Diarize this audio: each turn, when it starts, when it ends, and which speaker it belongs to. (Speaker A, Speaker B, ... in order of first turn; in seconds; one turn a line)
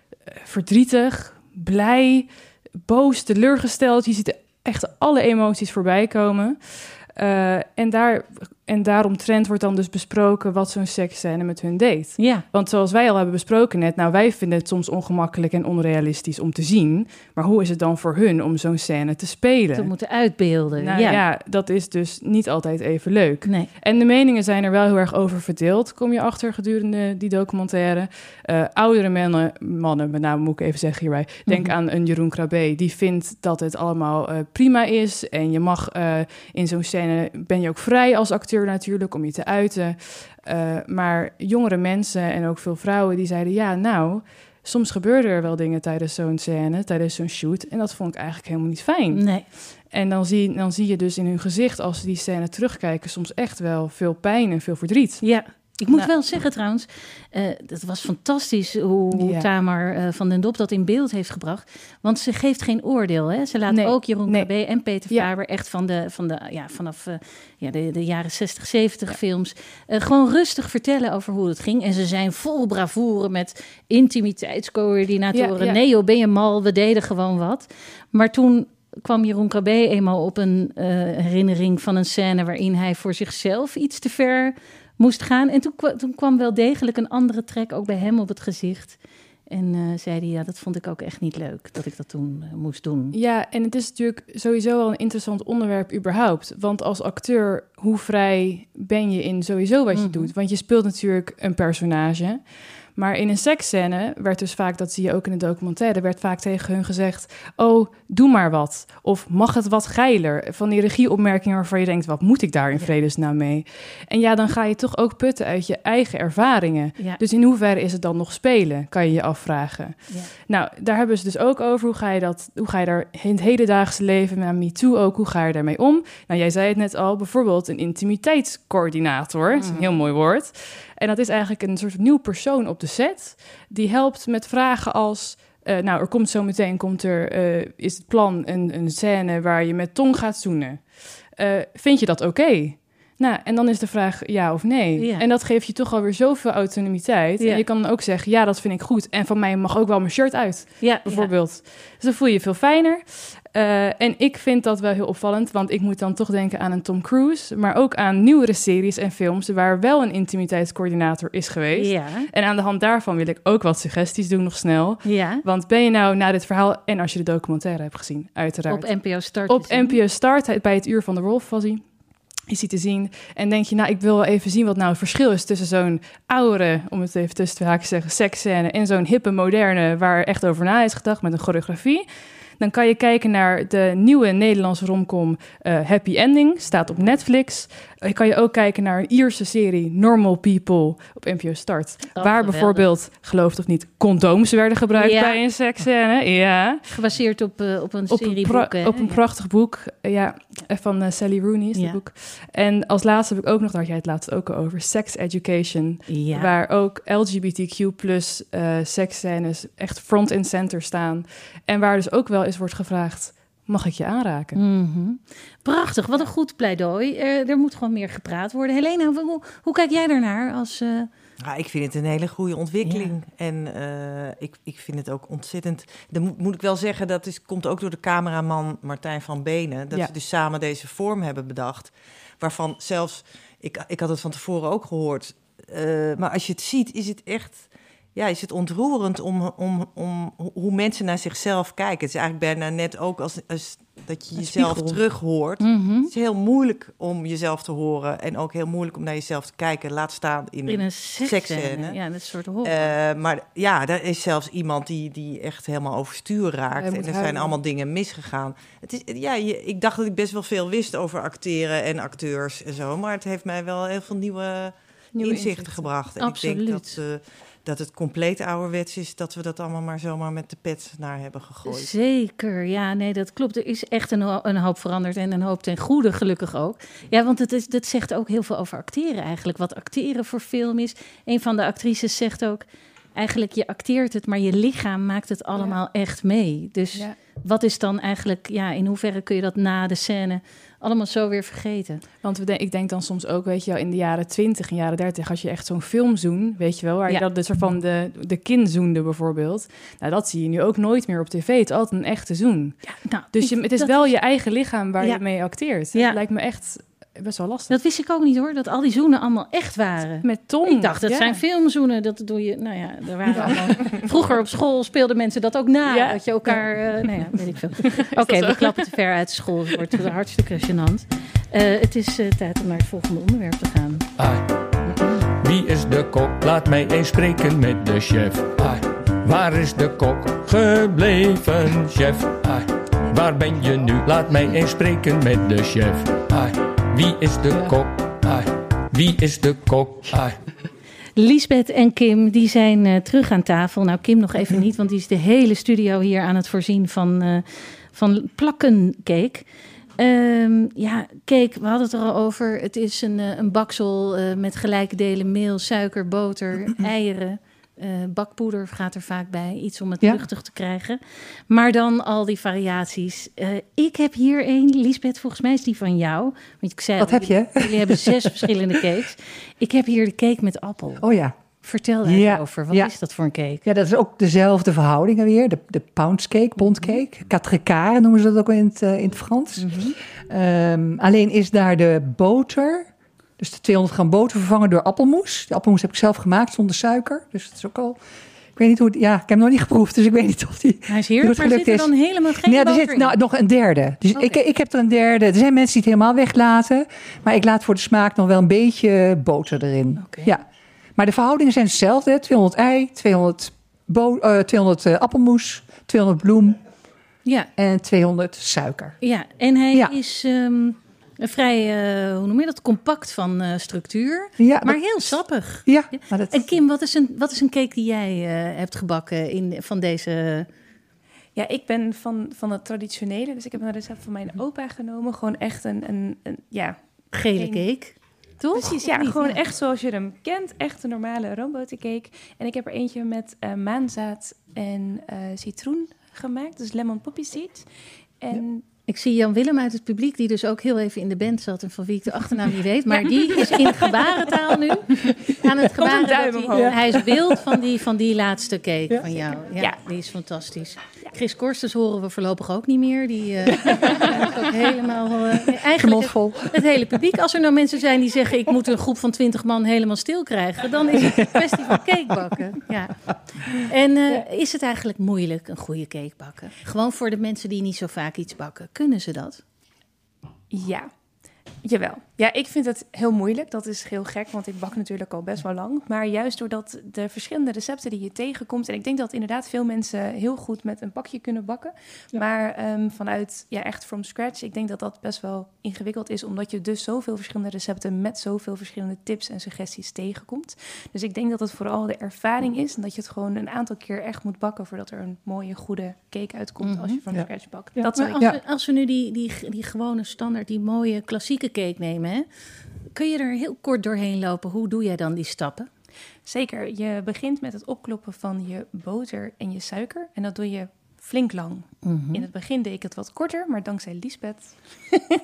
Speaker A: 0.3-19.9
Speaker B: 12.2-12.4
Speaker B: 19.7-21.2
Speaker A: 20.8-56.1
Speaker B: 23.4-23.7
Speaker B: 31.4-31.7
Speaker B: 49.1-49.4
Speaker B: 55.2-89.0
Speaker A: 59.1-59.5
Speaker A: 63.7-64.5
Speaker A: 75.3-75.8
Speaker B: 89.5-93.2
Speaker A: 93.1-171.8
Speaker B: 99.9-100.3
Speaker B: 129.6-129.9
Speaker B: 145.0-145.2
Speaker B: 150.8-151.3
Speaker B: 161.7-162.3
Speaker B: 165.0-165.4
Speaker B: 168.7-170.0
Speaker A: 172.4-182.1
Speaker A: 182.6-196.8
Speaker B: 192.1-192.8
Speaker B: 194.9-195.4
Speaker B: 196.9-199.2
Speaker A: 198.1-214.6
Speaker B: 206.1-206.5
Speaker B: 214.5-221.1
Speaker C: 221.4-252.0
Speaker B: 222.8-223.1
Speaker B: 244.4-245.0
Speaker B: 245.6-246.1
Speaker B: 250.7-252.9
Speaker C: 252.6-271.9
Speaker A: 256.7-257.5
Speaker D: 265.3-265.7
Speaker B: 266.2-267.0
Speaker B: 271.6-292.0
Speaker A: 292.2-302.8
Speaker B: 302.8-304.1
Speaker A: 303.3-307.7
Speaker B: 305.9-306.2
Speaker B: 307.7-324.1
Speaker A: 310.2-311.4
Speaker A: 313.4-313.8
Speaker A: 315.9-317.4
Speaker A: 317.9-319.0
Speaker E: 324.2-324.4
Speaker B: 324.9-325.2
Speaker E: 325.2-340.4
Speaker B: 341.2-349.4
Speaker B: 350.0-371.0
Speaker F: 367.0-368.5
Speaker F: 371.0-371.3
Speaker B: 371.6-373.6
Speaker F: 372.0-372.9
Speaker F: 373.6-388.0
Speaker B: 376.6-377.0
Speaker B: 379.6-379.9
Speaker F: 388.6-400.4
Speaker B: 390.9-393.1
Speaker B: 400.0-400.3
Speaker F: 400.9-406.6
Speaker F: 407.6-409.0
Speaker B: 409.0-420.5
Speaker F: 414.4-416.6
Speaker D: 421.3-426.8
Speaker B: 427.1-429.4
Speaker D: 427.3-427.7
Speaker D: 428.5-437.7
Speaker D: 438.2-438.6
Speaker B: 438.9-469.4
Speaker D: 442.9-444.4
Speaker D: 445.5-447.1
Speaker D: 449.5-449.8
Speaker F: 455.6-456.6
Speaker D: 470.5-470.9
Speaker D: 471.6-498.3
Speaker B: 496.6-497.0
Speaker B: 497.8-502.3
Speaker B: 502.9-505.7
Speaker D: 506.2-514.7
Speaker B: 511.8-512.2